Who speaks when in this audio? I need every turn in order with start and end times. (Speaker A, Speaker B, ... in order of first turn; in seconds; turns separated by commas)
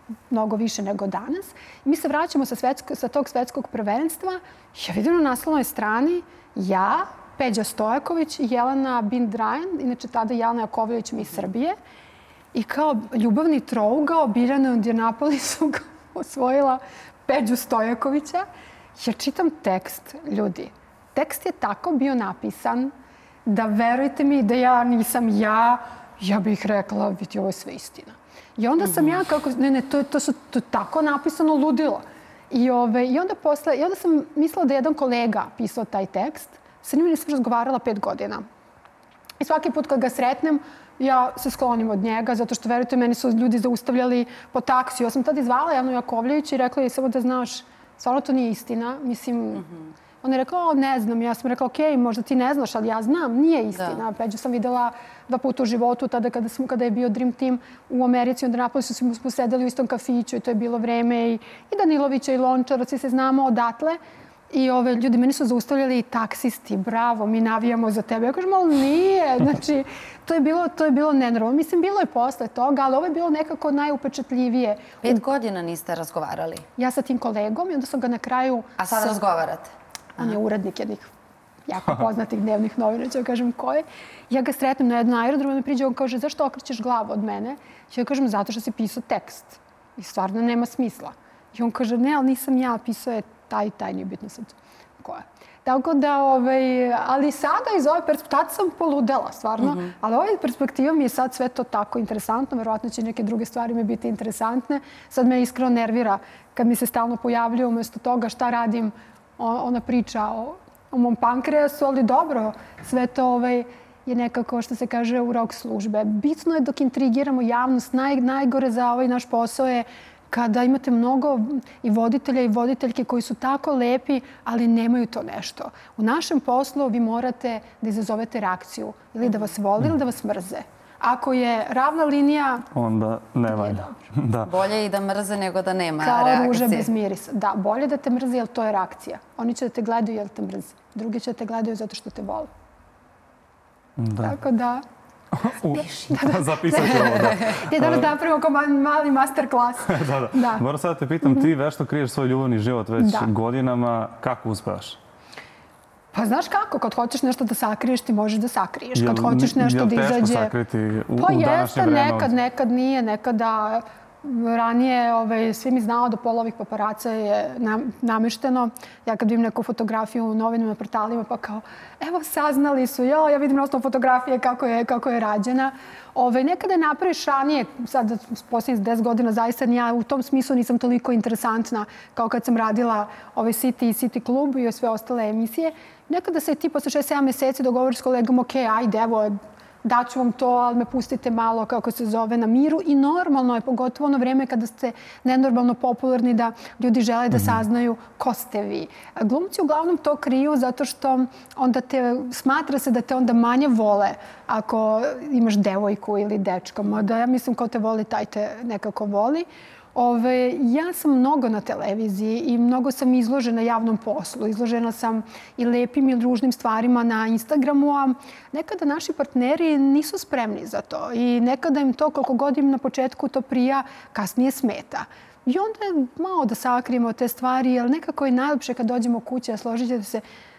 Speaker A: 0.3-11.8, Speaker A: 12.5-18.4, Speaker A: 19.0-22.9, Speaker A: 23.5-38.5, Speaker B: 28.8-29.2, Speaker A: 39.4-49.6, Speaker A: 50.2-64.0, Speaker B: 53.8-54.0, Speaker A: 64.5-75.2, Speaker B: 75.0-76.7, Speaker A: 76.8-79.2, Speaker B: 78.8-80.4, Speaker A: 80.2-81.1, Speaker A: 81.7-132.7, Speaker B: 99.6-99.9, Speaker C: 132.7-134.5, Speaker A: 133.5-134.0, Speaker B: 134.5-136.9, Speaker A: 136.0-142.5, Speaker C: 144.0-144.4, Speaker A: 144.2-144.8, Speaker C: 145.3-148.1, Speaker A: 145.8-150.6, Speaker C: 149.9-155.0, Speaker A: 153.0-153.3, Speaker A: 156.1-160.5, Speaker C: 158.9-162.3, Speaker A: 161.2-230.2